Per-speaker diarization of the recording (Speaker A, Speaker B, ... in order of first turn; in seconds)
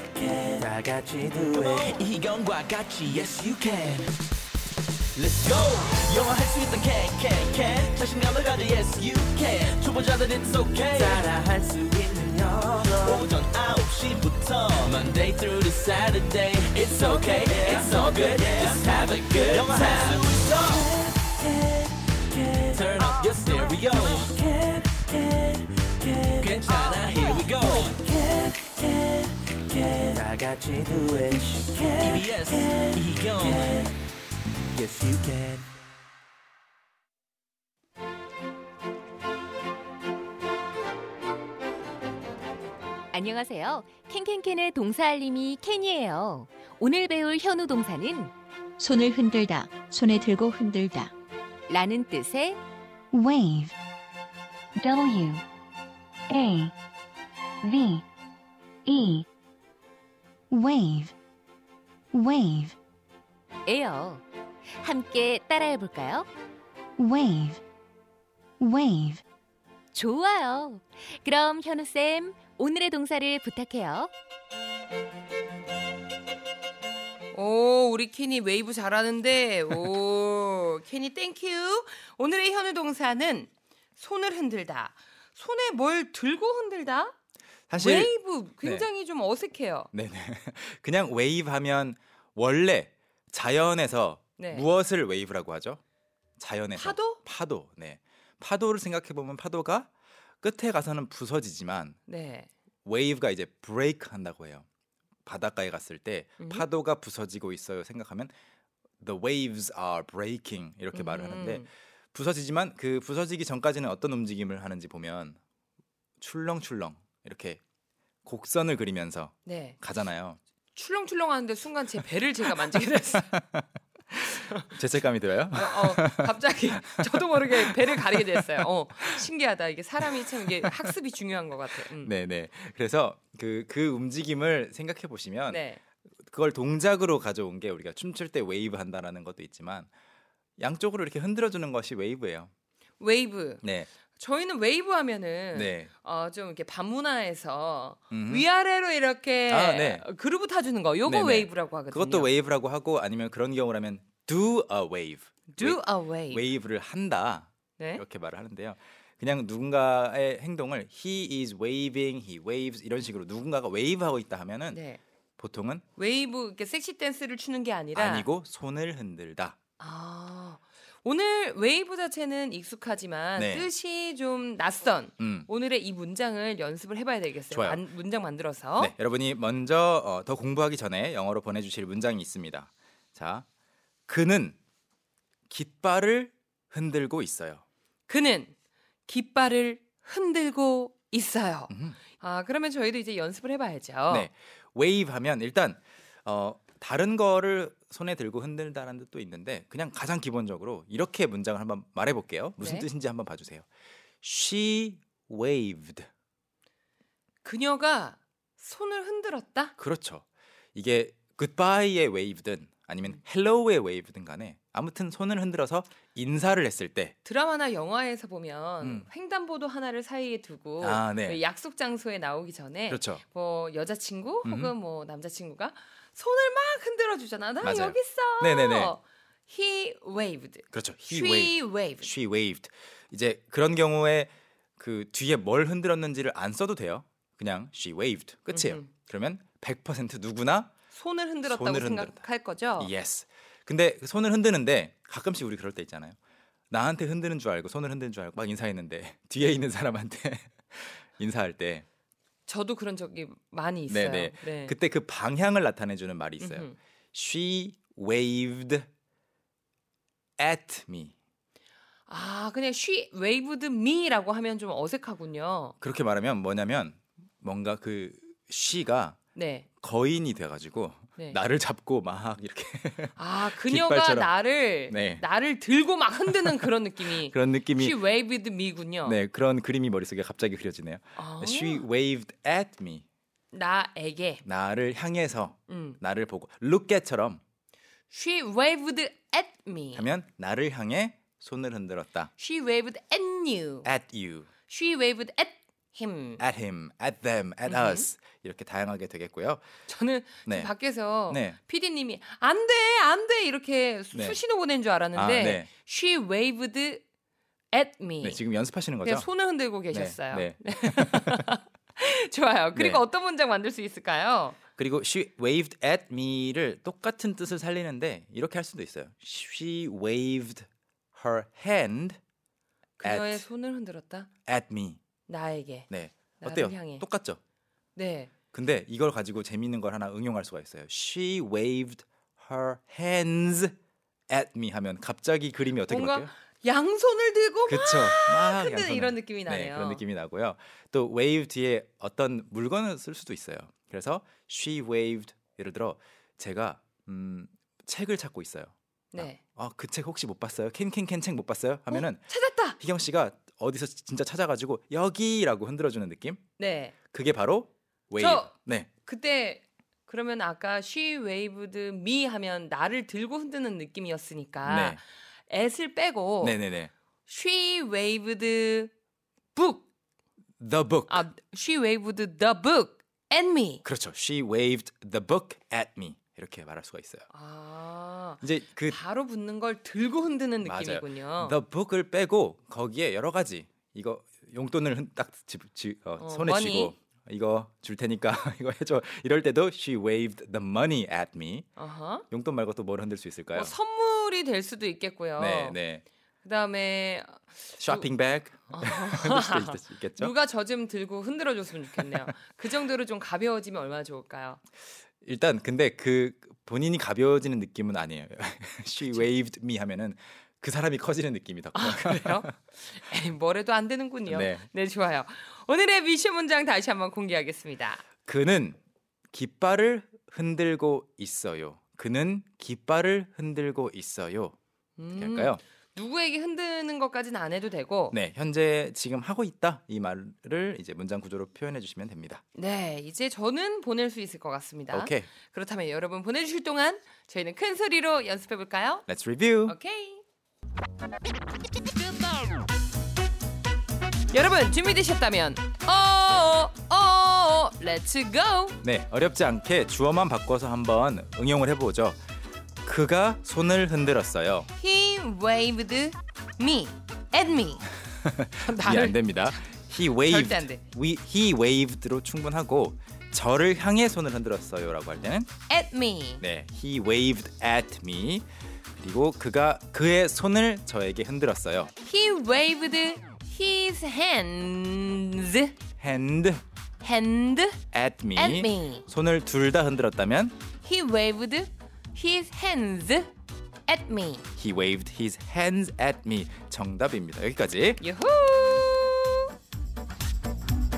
Speaker A: 0.2-4.1, 5.2-21.1, 22.6-24.8, 25.3-28.7, 29.8-33.9, 34.8-35.6
Speaker B: 43.1-48.3, 51.7-52.6, 63.7-64.2, 64.8-66.3, 69.9-74.1
Speaker C: 48.8-51.1
Speaker D: 53.1-53.8, 54.8-55.4, 56.3-56.7, 57.6-58.0, 58.9-59.3, 60.5-61.1, 62.1-62.8, 67.0-67.6, 68.6-69.2
Speaker E: 77.3-87.2, 87.7-89.9, 94.4-94.7, 96.8-97.2, 102.1-102.5, 110.9-111.7, 119.5-119.8, 120.7-123.3, 124.5-124.7, 125.5-132.1, 135.5-135.8, 143.0-152.3, 155.5-156.5, 164.7-165.0, 166.0-168.3, 169.8-178.9, 188.1-188.5, 189.1-194.3, 202.6-202.9, 207.4-209.8, 217.2-232.1, 238.5-238.9, 240.9-242.9, 252.5-254.8, 256.4-256.8, 262.1-265.8, 269.4-269.7, 273.2-279.2, 281.2-281.9, 283.5-284.4, 285.7-286.0, 288.1-290.1, 292.4-293.9, 294.7-296.4, 297.7-298.1, 299.9-307.0, 307.7-308.4, 309.0-314.6, 323.0-324.3, 325.3-327.1, 327.9-328.3, 335.9-340.0, 349.1-349.4, 351.9-352.8, 356.6-356.9, 358.2-358.5, 359.1-366.6, 367.3-368.9, 369.6-369.9, 371.1-373.8, 377.3-381.6, 386.2-386.9, 391.8-392.3, 393.5-395.8, 396.4-398.1, 398.7-404.6, 411.7-418.0, 425.0-428.2, 432.6-439.1, 439.6-440.2, 444.3-448.8, 454.7-457.9, 458.6-460.8, 465.7-466.4, 472.0-475.8, 477.0-477.8, 478.4-479.1, 480.8-483.3, 483.9-484.5, 488.0-489.5
Speaker F: 87.7-88.9, 89.9-95.8, 96.4-99.9, 100.4-102.0, 102.8-104.7, 105.3-108.3, 109.0-115.4, 116.2-117.6, 118.2-120.4, 123.2-123.7, 124.7-129.2, 130.1-130.9, 131.9-135.6, 136.2-139.9, 140.6-142.5, 143.6-143.9, 145.5-145.9, 148.1-148.5, 149.5-150.1, 151.1-164.8, 165.4-165.8, 167.9-169.6, 173.4-173.7, 175.2-175.5, 177.5-177.8, 178.8-183.4, 184.1-184.6, 185.5-187.6, 191.7-192.0, 194.1-203.7, 204.2-206.1, 209.8-217.2, 218.8-219.1, 220.8-221.4, 222.9-223.2, 224.4-224.7, 227.6-228.9, 230.7-240.7, 241.4-242.2, 242.8-246.2, 246.7-251.8, 253.9-258.9, 260.4-261.1, 265.8-269.2, 269.8-275.2, 276.3-278.0, 279.0-283.1, 284.4-287.4, 289.9-292.3, 293.8-294.5, 296.4-299.6, 300.5-300.7, 301.3-301.6, 304.1-304.4, 305.1-305.7, 308.2-309.3, 309.9-311.5, 312.8-313.0, 314.8-322.2, 323.0-323.4, 324.5-325.0, 325.9-327.4, 328.5-333.8, 334.3-336.3, 337.7-356.4, 357.1-358.9, 364.6-365.0, 366.4-366.9, 370.6-371.3, 373.8-377.3, 378.4-379.0, 380.6-391.7, 392.3-393.8, 395.4-396.0, 397.8-400.3, 402.0-402.3, 405.2-412.5, 414.3-414.7, 418.3-418.8, 419.3-424.6, 425.1-425.6, 428.1-432.4, 434.9-435.3, 439.1-439.8, 448.8-452.2, 452.9-454.7, 458.2-465.5, 466.4-468.5, 469.0-471.9, 476.0-476.6, 477.9-480.6, 484.6-488.0